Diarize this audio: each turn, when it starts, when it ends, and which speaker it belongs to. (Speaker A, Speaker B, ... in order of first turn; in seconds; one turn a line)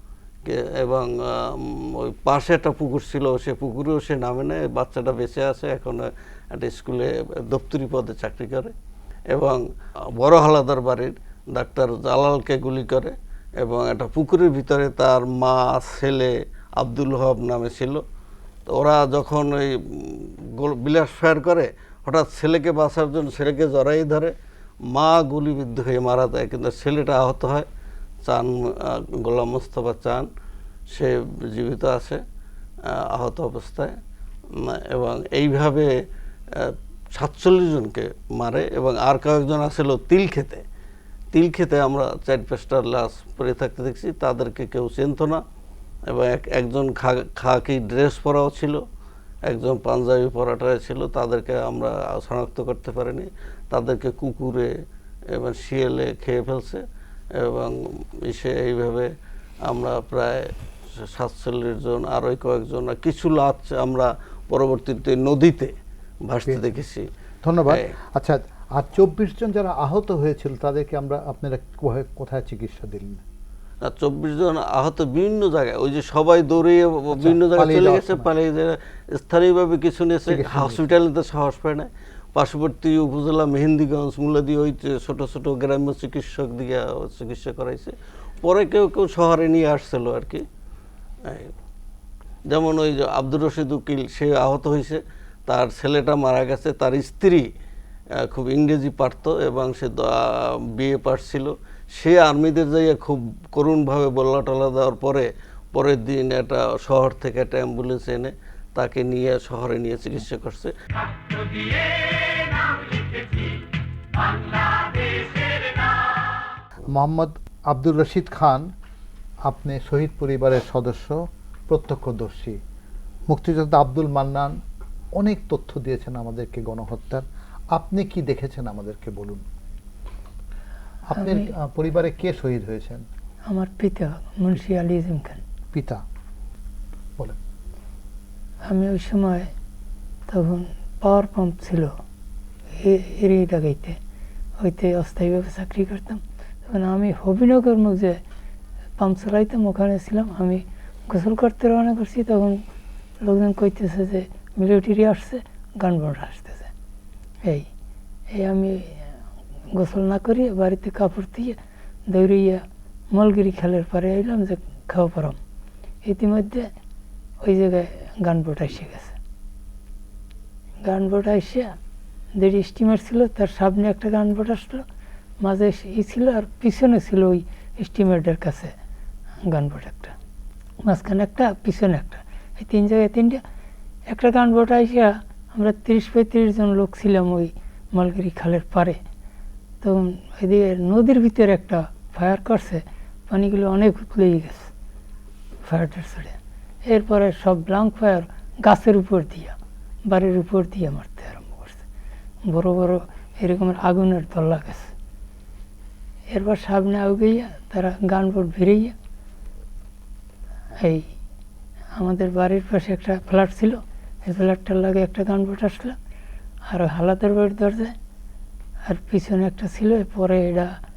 Speaker A: 0.5-8.7
Speaker A: 9.3-9.6
Speaker A: 10.2-18.0
Speaker A: 18.7-24.3
Speaker A: 24.9-27.7
Speaker A: 28.2-30.3
Speaker A: 30.9-32.2
Speaker A: 32.9-34.0
Speaker A: 34.5-35.9
Speaker A: 36.5-40.6
Speaker A: 41.3-45.4
Speaker A: 46.1-48.8
Speaker A: 49.5-54.7
Speaker A: 55.3-56.8
Speaker A: 57.4-59.1
Speaker A: 59.6-65.7
Speaker A: 66.3-67.1
Speaker B: 67.4-73.2
Speaker A: 73.8-90.4
Speaker B: 77.1-78.3
Speaker B: 80.3-81.0
Speaker A: 91.3-91.5
Speaker A: 92.5-97.5
Speaker A: 98.2-110.7
Speaker B: 116.9-118.7
Speaker B: 119.5-122.6
Speaker B: 123.3-124.6
Speaker B: 125.2-129.4
Speaker B: 131.1-133.0
Speaker C: 131.2-131.5
Speaker C: 133.5-135.4
Speaker B: 135.7-136.0
Speaker C: 138.6-139.5
Speaker C: 140.3-141.9
Speaker C: 142.7-144.0
Speaker C: 144.6-148.2
Speaker C: 149.0-152.6
Speaker C: 153.2-156.7
Speaker C: 158.3-159.1
Speaker C: 159.7-165.4
Speaker C: 166.0-166.7
Speaker C: 167.4-169.2
Speaker C: 170.8-171.7
Speaker C: 172.3-174.8
Speaker C: 175.4-178.7
Speaker C: 179.4-180.2
Speaker C: 180.8-183.4
Speaker C: 184.1-189.0
Speaker C: 189.8-194.7
Speaker C: 195.6-201.8
Speaker C: 202.5-204.9
Speaker C: 206.3-208.9
Speaker C: 210.8-211.1
Speaker C: 211.9-216.0
Speaker C: 216.7-217.9
Speaker C: 218.8-220.8